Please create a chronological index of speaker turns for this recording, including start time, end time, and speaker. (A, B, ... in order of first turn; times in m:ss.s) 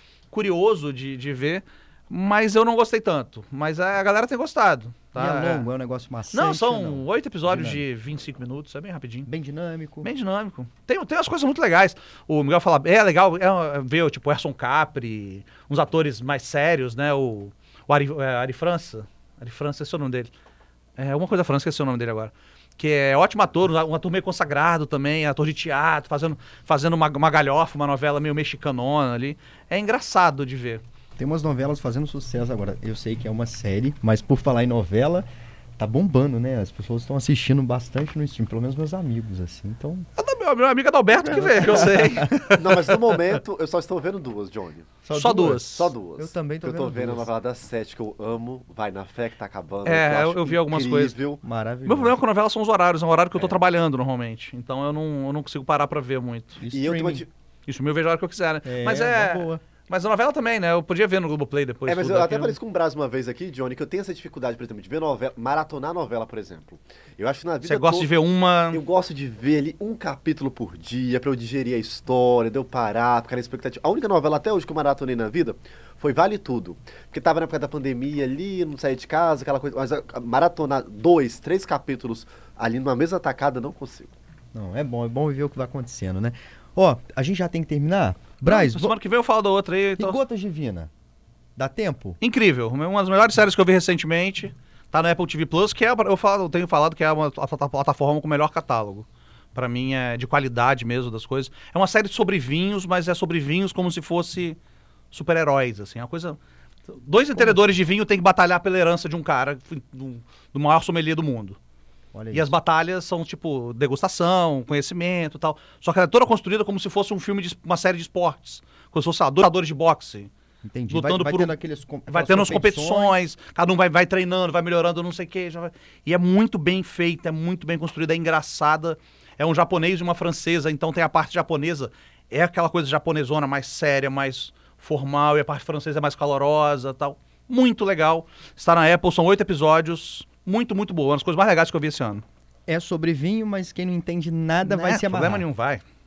0:00.3-0:05.7 A
0:05.2-0:07.8 B
0:06.3-0:09.3 A
0:09.3-0:10.1 B
0:10.0-0:20.3 A
0:21.0-0:30.8 A
0:31.2-0:35.3 B
0:35.8-0:40.1 B
0:40.2-0:43.4 A
0:41.3-0:42.3 B
0:41.3-0:42.0 C
0:42.5-0:51.4 C
0:45.0-0:47.3 B
0:45.1-0:45.9 A
0:49.8-0:51.2 A
0:51.4-0:52.2 B
0:51.8-0:56.6 A
0:56.6-0:57.3 B
0:56.7-0:57.3 C
0:57.7-1:02.6 A
0:58.6-0:59.6 B
1:01.9-1:08.1 C
1:07.6-1:08.8 A
1:08.7-1:24.1 C
1:24.5-1:29.0 B
1:28.4-1:30.2 A
1:30.0-1:30.9 B
1:31.6-1:32.2 B
1:32.2-1:44.6 A
1:45.1-1:46.4 A
1:46.9-1:51.6 A
1:47.4-1:47.6 B
1:52.1-1:52.6 B
1:52.3-2:00.3 A
2:00.6-2:03.2 B
2:00.9-2:01.6 A
2:02.1-2:22.2 A
2:22.7-2:25.5 B
2:24.6-2:25.8 A